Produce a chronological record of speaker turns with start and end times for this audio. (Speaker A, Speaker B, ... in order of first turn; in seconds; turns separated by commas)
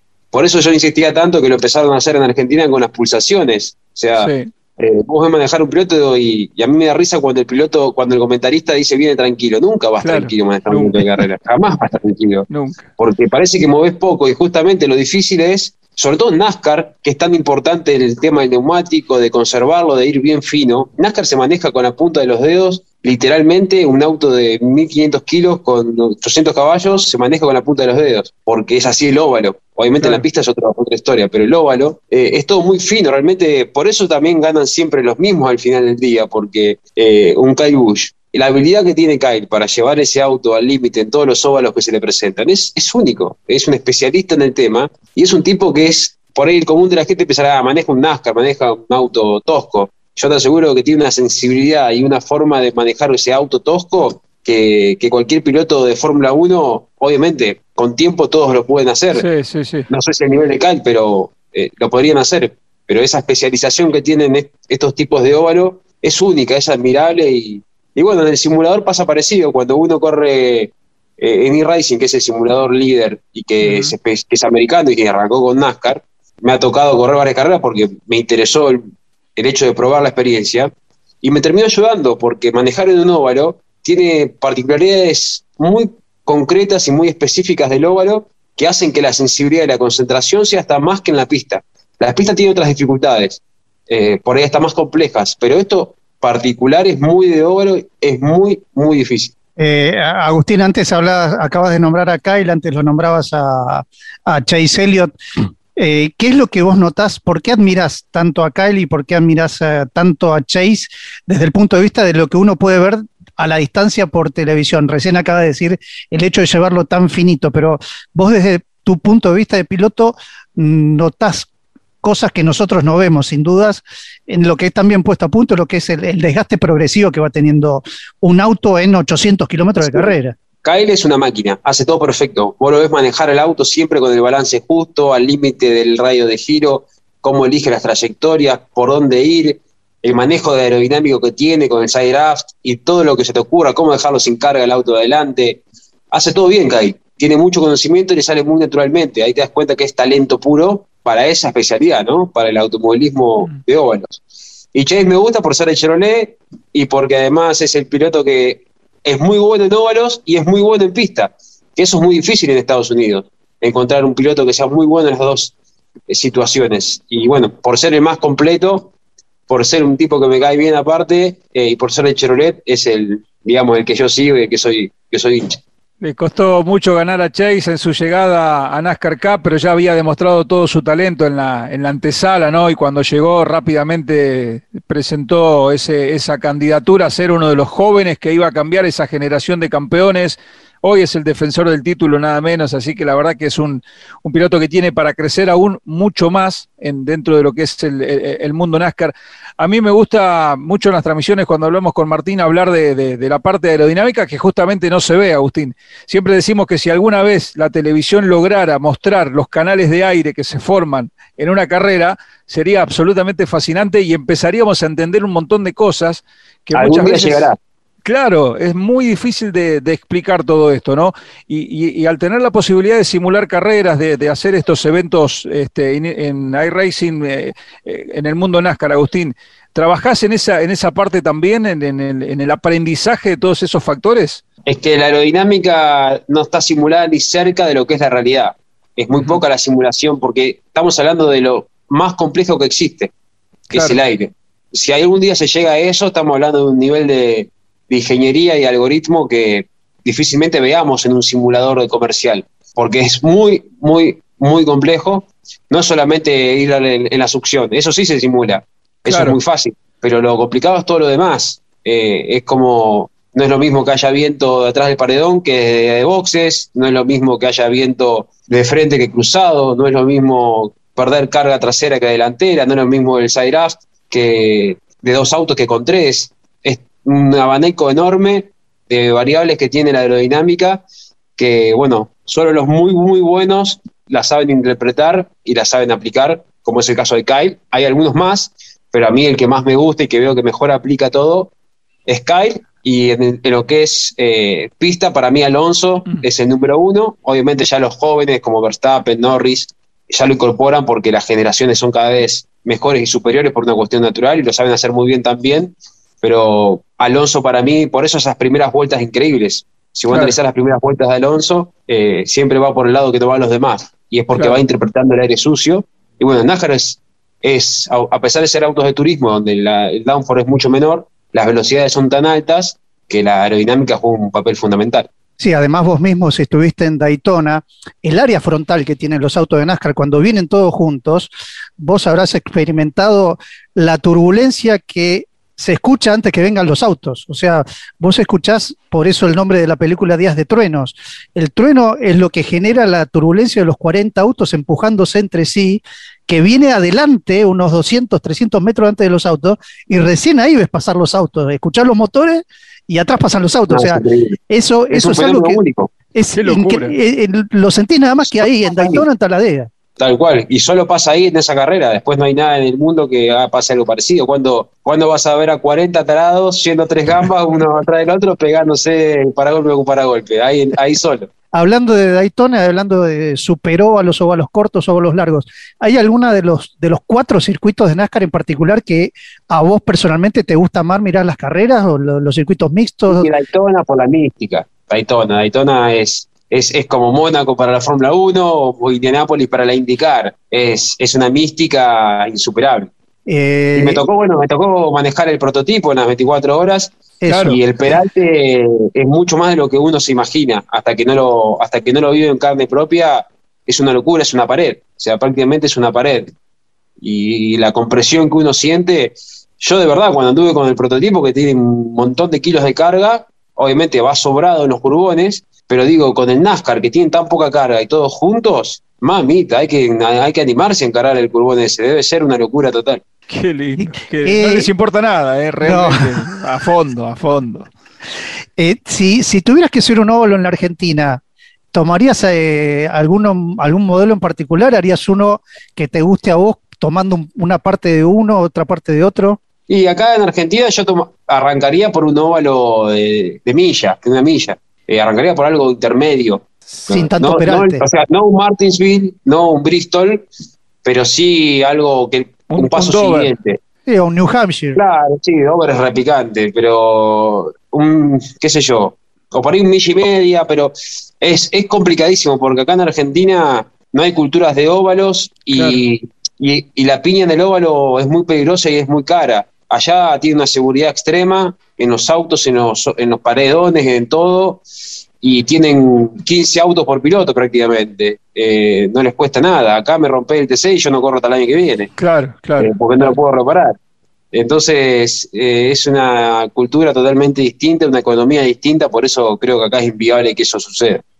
Speaker A: 0.3-59.2, Speaker B: 4.2-4.5, Speaker B: 10.0-11.2, Speaker B: 12.5-12.9, Speaker B: 59.1-59.9, Speaker A: 59.9-78.8, Speaker B: 73.6-73.9, Speaker A: 79.3-99.3, Speaker C: 99.6-105.1, Speaker C: 105.8-121.5, Speaker C: 122.0-130.3, Speaker A: 130.6-154.2, Speaker A: 154.7-165.5, Speaker A: 166.1-168.9, Speaker A: 169.5-175.6, Speaker B: 176.0-217.5, Speaker A: 216.7-217.6, Speaker B: 218.0-234.4, Speaker A: 234.7-243.1, Speaker B: 243.7-244.0, Speaker A: 243.7-280.8, Speaker B: 259.1-259.4, Speaker A: 281.4-291.5, Speaker A: 292.1-325.1, Speaker B: 310.1-310.3, Speaker C: 325.4-355.6, Speaker A: 353.7-354.4, Speaker A: 354.9-355.9, Speaker C: 356.1-359.7, Speaker B: 356.4-356.9, Speaker A: 358.7-359.0, Speaker A: 360.0-371.3, Speaker C: 371.5-383.3, Speaker A: 383.1-392.9, Speaker C: 393.3-394.0, Speaker A: 393.8-396.9, Speaker C: 397.2-397.5, Speaker B: 397.3-397.6, Speaker A: 397.4-406.3, Speaker A: 407.0-423.0, Speaker B: 423.3-427.7, Speaker C: 423.8-424.7, Speaker C: 425.6-426.2, Speaker C: 428.6-431.2, Speaker C: 431.7-439.4, Speaker A: 439.7-450.3, Speaker C: 446.8-447.8, Speaker A: 450.8-453.6, Speaker B: 452.5-453.3, Speaker C: 453.9-454.8, Speaker A: 454.7-474.6, Speaker B: 465.5-465.8, Speaker A: 475.2-481.9, Speaker B: 482.0-483.1, Speaker A: 482.6-483.7, Speaker A: 484.3-491.0